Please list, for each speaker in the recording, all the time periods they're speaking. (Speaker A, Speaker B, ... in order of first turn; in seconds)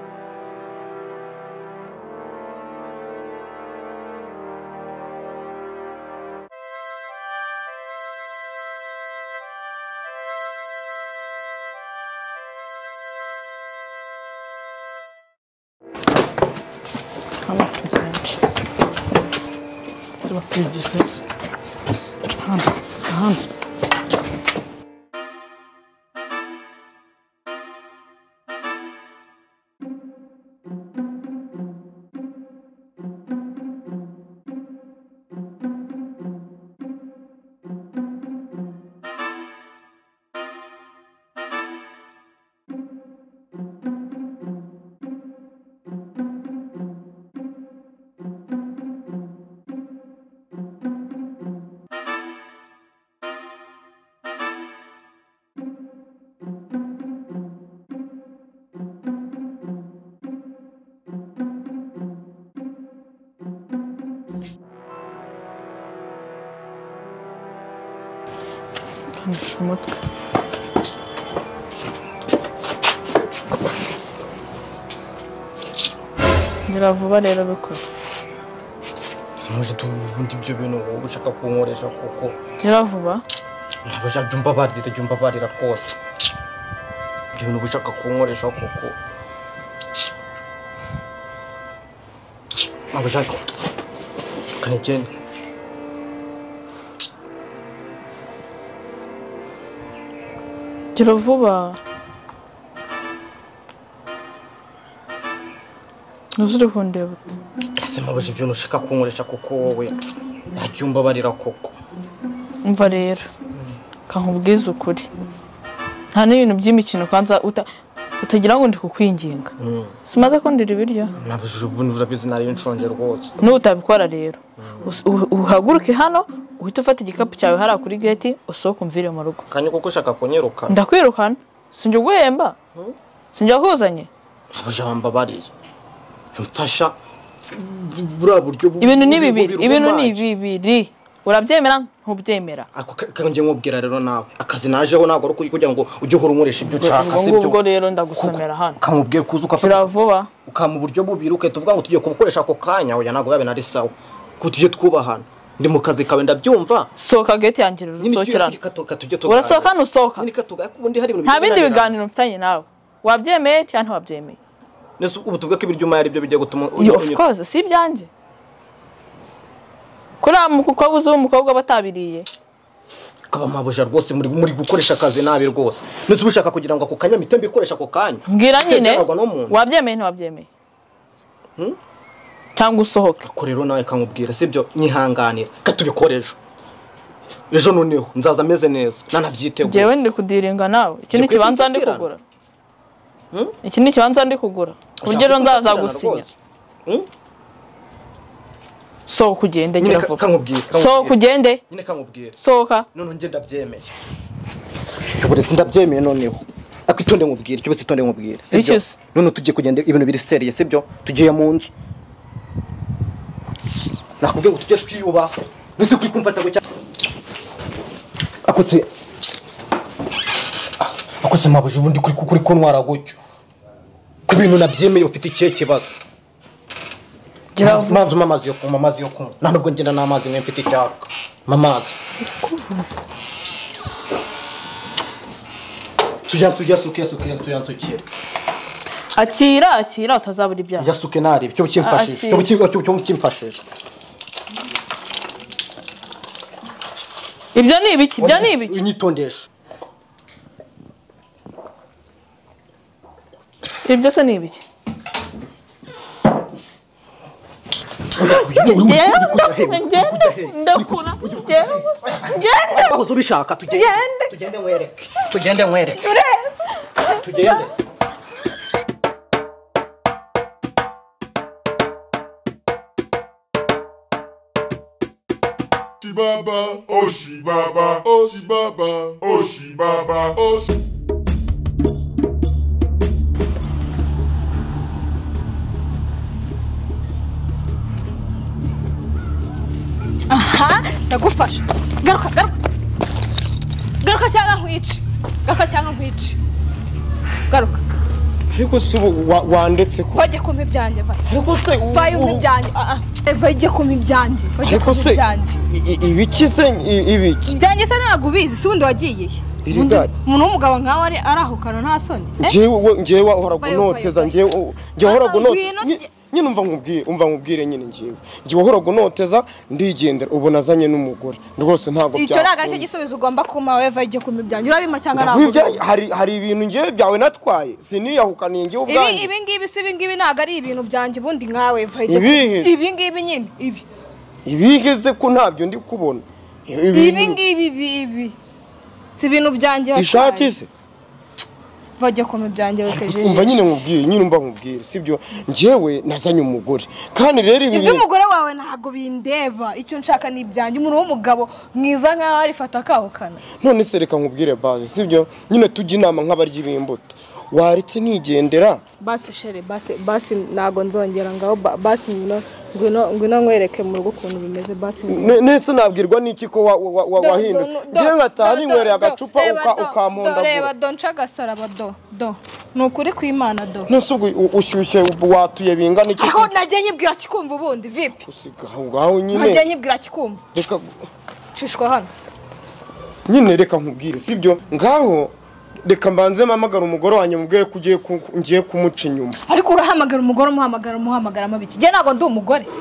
Speaker A: 17.4-18.4, 20.2-21.1, 22.4-23.4, 69.1-70.0, 76.7-77.8, 82.6-83.2, 100.9-101.8, 106.4-107.3, 112.6-113.3, 114.1-115.1, 116.1-117.7, 118.2-119.5, 120.1-121.1, 123.4-129.4, 130.7-132.6, 133.3-134.1, 138.8-142.7, 146.7-148.8, 149.6-150.3, 157.0-158.6, 159.2-160.3, 161.2-164.4, 166.7-168.1, 170.2-172.3, 178.3-180.5, 182.5-183.2, 189.6-192.2, 193.6-196.3, 199.1-201.6, 202.4-202.8, 208.5-209.0, 227.6-228.0, 232.2-232.9, 239.1-240.9, 241.8-242.5, 247.5-248.8, 253.8-254.6, 258.6-262.9
Speaker B: 79.4-82.4, 83.8-85.8, 87.3-89.0, 92.9-93.4, 94.6-95.1, 107.8-110.0, 110.5-111.7, 119.6-119.9, 121.2-123.3, 129.5-130.8, 134.5-135.5, 136.3-136.9, 137.5-140.2, 142.7-147.6, 148.1-149.9, 150.4-156.9, 158.0-161.9, 165.0-167.2, 173.3-179.6, 183.2-186.4, 187.5-189.9, 191.1-192.1, 195.0-196.2, 199.8-202.4, 202.9-203.9, 205.2-211.7, 214.2-216.6, 218.4-218.9, 220.8-223.2, 224.3-225.9, 227.6-232.0, 236.2-238.1, 240.8-243.6, 248.2-249.5, 258.1-266.1, 267.2-267.7
Speaker C: 263.7-264.3, 265.9-266.5, 290.3-292.5, 294.0-296.4, 297.5-297.8, 300.1-301.2, 301.9-305.6, 307.4-312.6, 313.6-314.4, 315.0-316.1, 322.1-325.8, 328.9-333.8, 336.9-338.4, 339.1-340.6, 342.0-343.6, 347.7-353.4, 359.0-365.4, 367.1-373.9, 376.1-378.2, 379.3-380.4, 381.5-382.1, 389.4-392.7
Speaker D: 276.3-280.3
Speaker E: 278.0-278.3, 298.5-300.3, 301.2-302.5, 304.6-307.6, 309.6-310.1, 312.4-322.9, 325.1-329.3, 332.1-332.8, 334.4-337.4, 339.9-340.7, 342.9-348.1, 353.6-358.8, 365.1-370.7, 373.9-376.5, 378.2-379.7, 380.5-380.9, 383.3-385.3, 385.8-389.4